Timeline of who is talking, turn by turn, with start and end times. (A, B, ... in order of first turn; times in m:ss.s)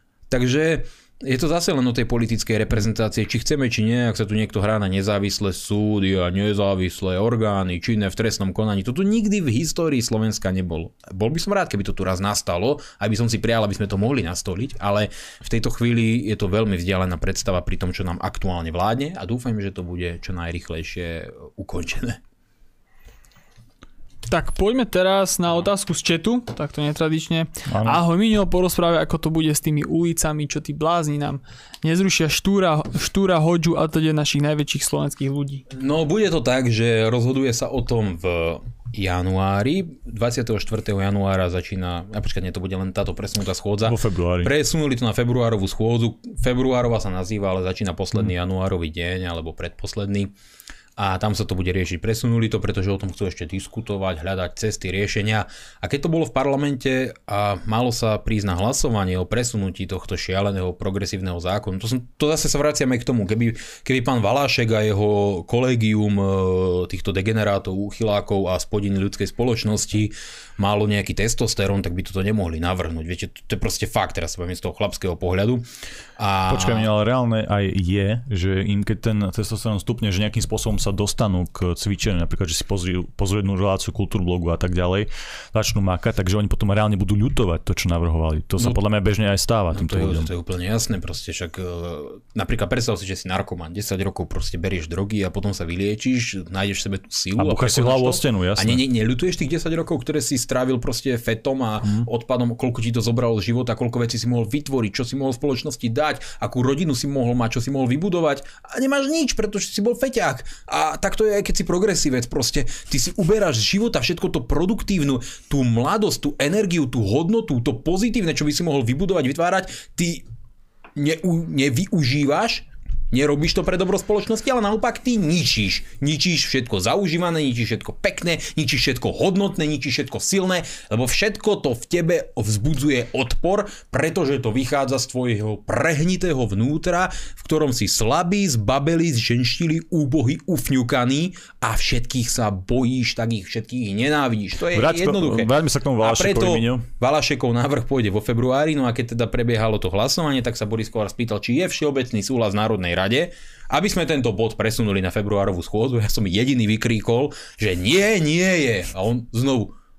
0:00.3-0:22.2 A
0:24.3-0:35.6 B
0:27.7-0:28.0 C
0:35.7-0:50.3 A
0:43.8-0:44.5 C
0:51.0-1:15.7 A
1:16.2-1:16.9 A
1:16.5-1:30.3 C
1:28.6-1:28.8 A
1:29.7-2:00.2 A
1:37.4-1:38.8 C
2:01.0-2:39.7 A
2:24.7-2:26.8 C